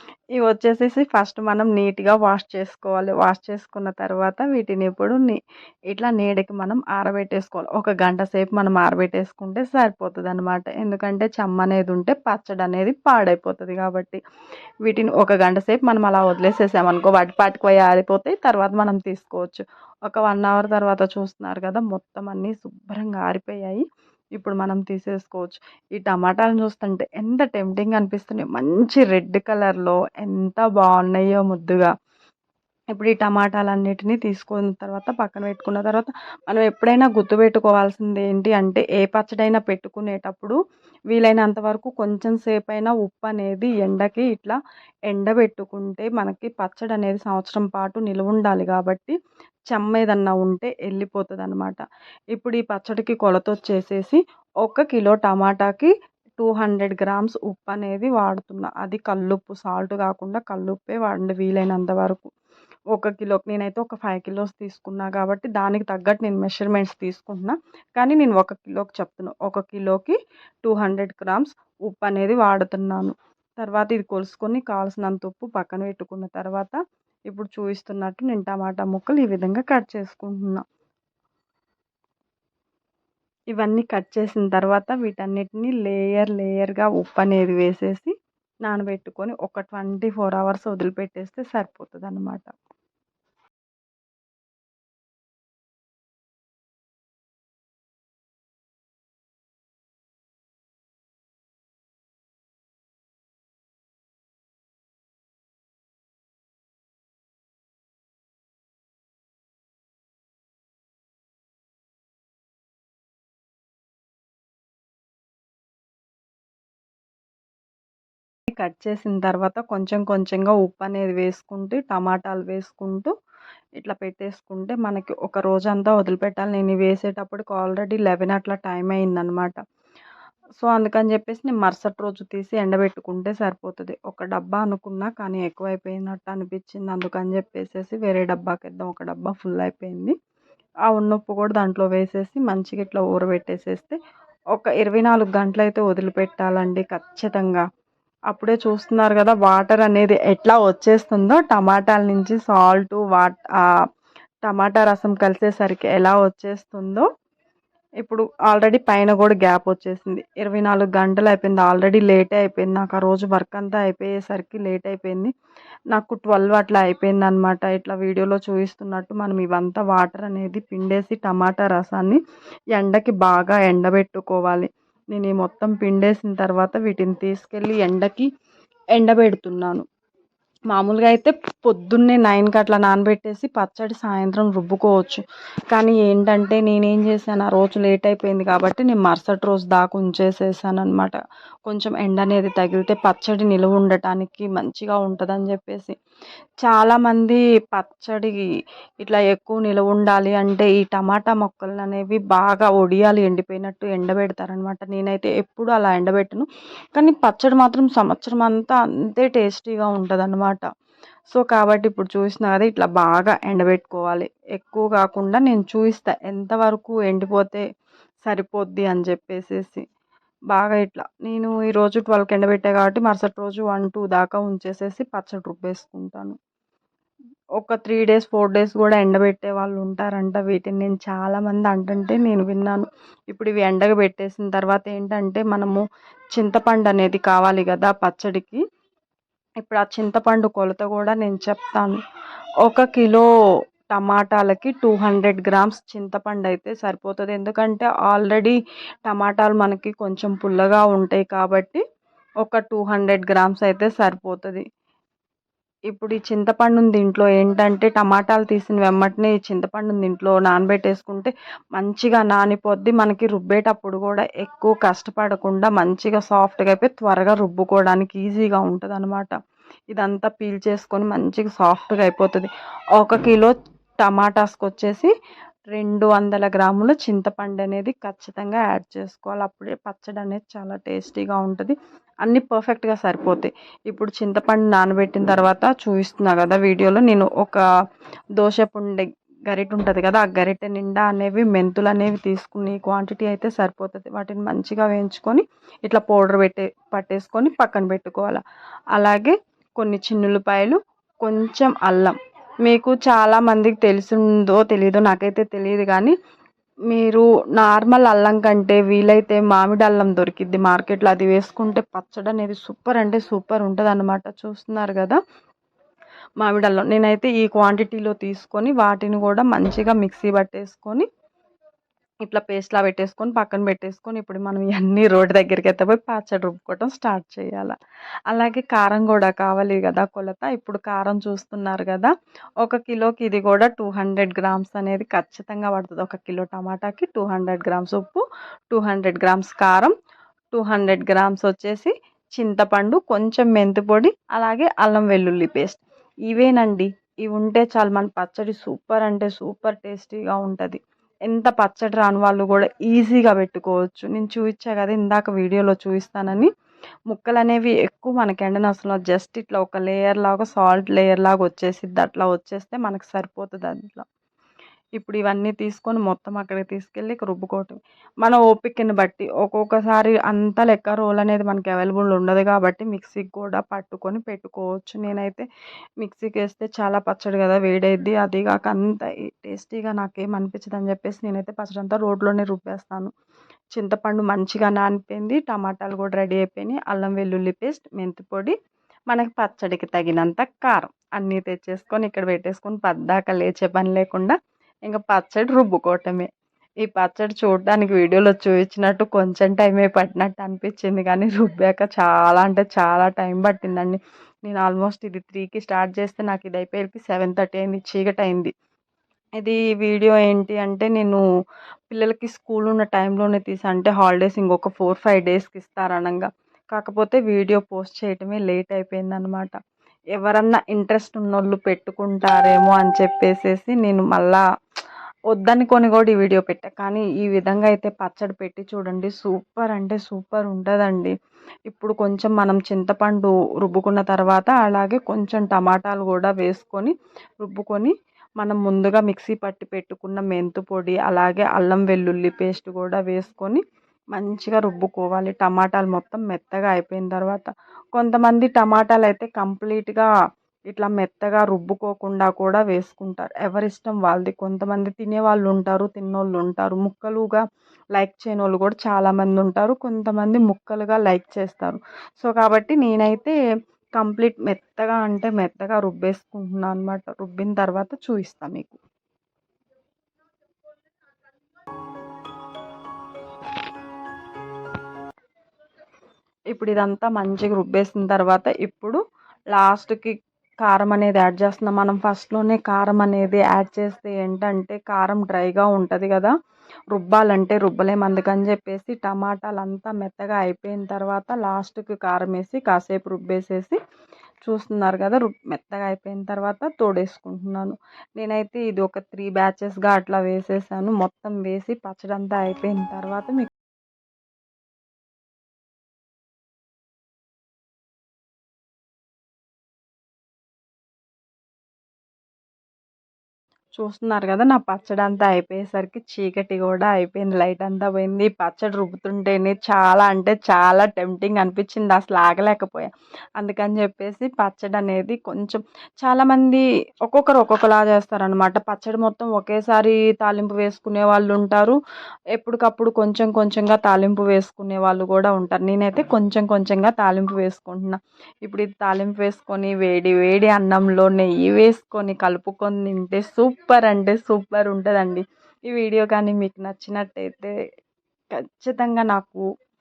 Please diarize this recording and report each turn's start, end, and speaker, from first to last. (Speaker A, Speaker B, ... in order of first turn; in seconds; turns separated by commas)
Speaker A: 0.4-14.2, Speaker A: 14.8-23.9, Speaker A: 24.4-31.9, Speaker A: 33.0-40.6, Speaker A: 41.1-49.2, Speaker A: 49.7-51.8, Speaker A: 52.3-62.3, Speaker A: 62.9-76.8, Speaker A: 77.3-80.6, Speaker A: 83.5-88.1, Speaker A: 88.7-92.5, Speaker A: 118.5-123.1, Speaker A: 123.8-129.6, Speaker A: 130.6-140.2, Speaker A: 140.9-144.0, Speaker A: 144.5-147.6, Speaker A: 148.3-153.7, Speaker A: 154.5-157.1, Speaker A: 158.0-165.3, Speaker A: 165.9-172.2, Speaker A: 172.7-178.3, Speaker A: 179.0-179.8, Speaker A: 180.7-196.0, Speaker A: 196.6-198.5, Speaker A: 199.0-210.7, Speaker A: 211.3-217.6, Speaker A: 218.2-219.8, Speaker A: 220.5-226.4, Speaker A: 227.6-235.8, Speaker A: 236.3-238.6, Speaker A: 239.6-242.0, Speaker A: 242.6-243.3, Speaker A: 243.9-251.8, Speaker A: 252.4-254.7, Speaker A: 255.9-269.4, Speaker A: 269.9-275.1, Speaker A: 275.7-287.6, Speaker A: 288.4-298.4, Speaker A: 298.9-306.1, Speaker A: 306.9-315.2, Speaker A: 316.4-321.1, Speaker A: 322.3-327.8, Speaker A: 328.3-332.1, Speaker A: 332.6-339.9, Speaker A: 340.5-356.5, Speaker A: 357.1-364.1, Speaker A: 365.0-375.5, Speaker A: 376.0-383.1, Speaker A: 383.7-388.6, Speaker A: 389.1-396.3, Speaker A: 396.8-408.5, Speaker A: 409.4-411.2, Speaker A: 411.9-419.6, Speaker A: 420.1-424.4, Speaker A: 425.3-431.1, Speaker A: 431.7-443.6, Speaker A: 444.1-450.1, Speaker A: 450.7-457.4, Speaker A: 458.0-463.4, Speaker A: 464.0-468.8, Speaker A: 476.5-479.0, Speaker A: 479.5-486.3, Speaker A: 486.9-493.8, Speaker A: 494.4-503.5, Speaker A: 513.8-531.8, Speaker A: 532.4-547.5, Speaker A: 548.6-549.4